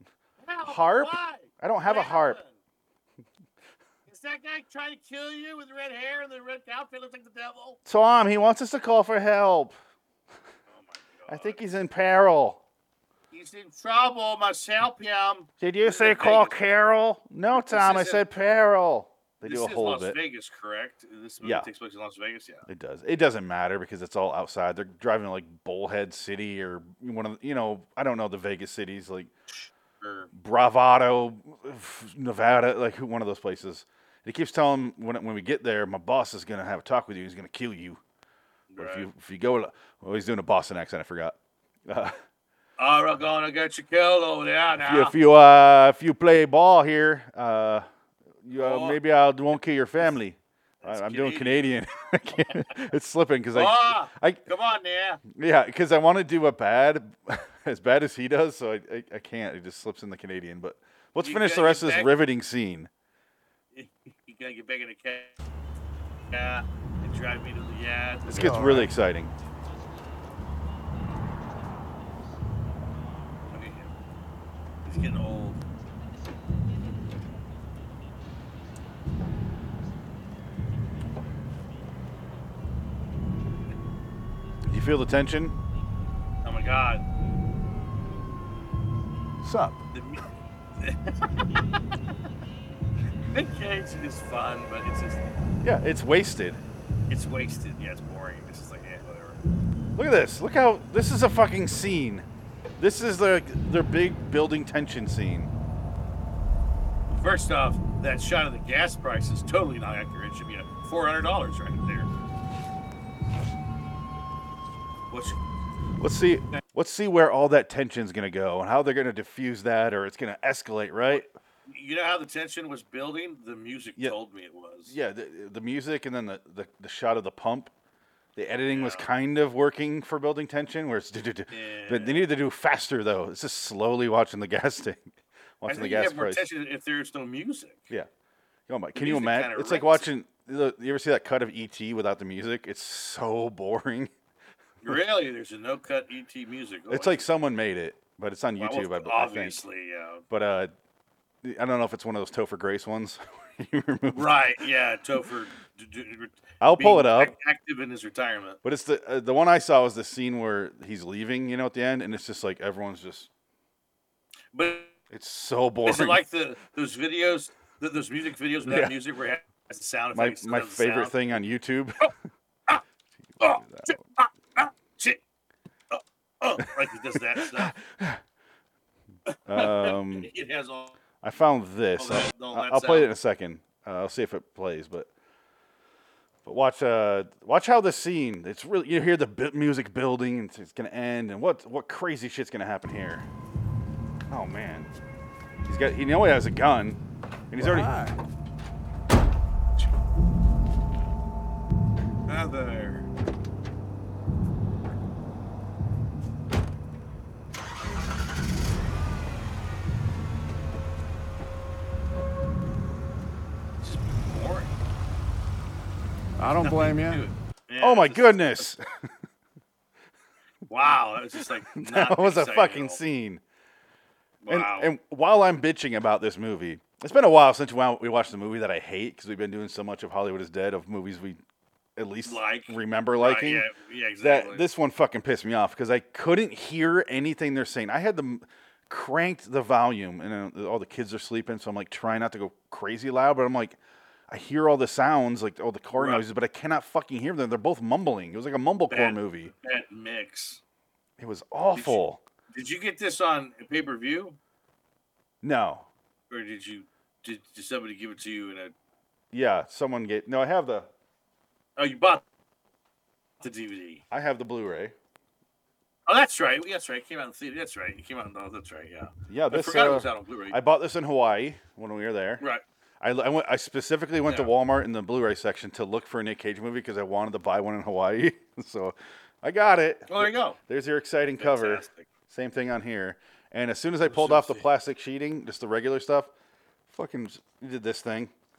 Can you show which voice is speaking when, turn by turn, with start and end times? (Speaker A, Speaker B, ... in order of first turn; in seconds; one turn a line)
Speaker A: 0.4-2.5
Speaker B: 0.6-2.4
Speaker A: 4.1-7.8
Speaker B: 7.8-9.8
Speaker A: 10.7-11.6
Speaker B: 11.3-12.6
Speaker A: 13.3-16.6
Speaker B: 15.6-20.2
Speaker A: 17.5-18.2
Speaker A: 19.4-22.6
Speaker B: 21.4-21.7
Speaker B: 22.7-29.3
Speaker A: 29.5-30.3
Speaker B: 30.3-38.0
Speaker A: 38.7-39.1
Speaker B: 38.8-42.2
Speaker A: 42.8-45.1
Speaker B: 44.8-47.9
Speaker B: 48.4-54.4
Speaker A: 48.5-49.0
Speaker A: 50.8-51.7
Speaker A: 53.5-55.2
Speaker B: 55.3-62.9
Speaker A: 61.2-62.2
Speaker A: 63.7-65.3
Speaker A: 66.3-68.7
Speaker B: 68.3-69.3
Speaker C: 68.3-68.9
Speaker A: 73.5-73.9
Speaker A: 74.8-75.6
Speaker B: 84.7-85.5
Speaker A: 86.4-87.0
Speaker B: 89.4-89.7
Speaker A: 89.9-90.2
Speaker A: 90.8-91.2
Speaker A: 93.3-95.2
Speaker B: 95.6-96.6
Speaker A: 97.1-99.4
Speaker B: 100.0-102.2
Speaker B: 102.8-105.5
Speaker A: 107.1-112.1
Speaker A: 115.1-115.4
Speaker B: 116.0-121.3
Speaker A: 121.1-124.9
Speaker B: 124.9-127.7
Speaker B: 128.3-135.1
Speaker A: 128.7-129.1
Speaker A: 131.5-132.2
Speaker B: 135.6-136.4
Speaker A: 135.7-137.9
Speaker B: 138.7-144.1
Speaker A: 138.9-140.1
Speaker A: 144.8-147.2
Speaker B: 146.9-149.6
Speaker A: 148.6-150.2
Speaker B: 150.3-150.7
Speaker B: 151.4-154.3
Speaker A: 154.1-158.6
Speaker B: 156.6-157.3
Speaker B: 158.6-163.3
Speaker A: 164.5-164.9
Speaker B: 165.1-166.2
Speaker A: 165.8-171.2
Speaker B: 168.7-168.9
Speaker B: 170.1-172.1
Speaker A: 173.4-175.2
Speaker B: 173.4-173.9
Speaker A: 175.9-177.7
Speaker B: 176.6-178.2
Speaker A: 179.3-181.0
Speaker B: 179.5-180.3
Speaker B: 181.2-185.1
Speaker A: 182.0-183.1
Speaker B: 186.4-193.3
Speaker B: 194.3-194.9
Speaker B: 195.7-197.0
Speaker B: 197.5-197.9
Speaker C: 197.6-198.2
Speaker A: 202.3-203.1
Speaker A: 213.8-214.7
Speaker C: 216.4-217.2
Speaker A: 216.6-218.7
Speaker B: 217.8-218.8
Speaker A: 220.7-223.0
Speaker B: 221.7-223.4
Speaker A: 224.4-224.9
Speaker B: 224.5-231.4
Speaker B: 231.9-233.7
Speaker A: 232.2-234.6
Speaker B: 234.2-243.8
Speaker B: 244.3-249.5
Speaker A: 245.9-246.2
Speaker A: 248.9-250.6
Speaker B: 251.2-252.2
Speaker A: 251.7-252.0
Speaker A: 252.5-254.4
Speaker B: 255.4-255.9
Speaker A: 256.3-258.7
Speaker B: 259.3-260.9
Speaker A: 261.8-262.2
Speaker A: 263.4-264.0
Speaker B: 264.1-264.9
Speaker A: 266.1-270.6
Speaker B: 269.3-272.4
Speaker B: 273.0-286.3
Speaker A: 280.1-280.6
Speaker A: 281.4-282.1
Speaker A: 284.1-284.7
Speaker B: 286.9-288.3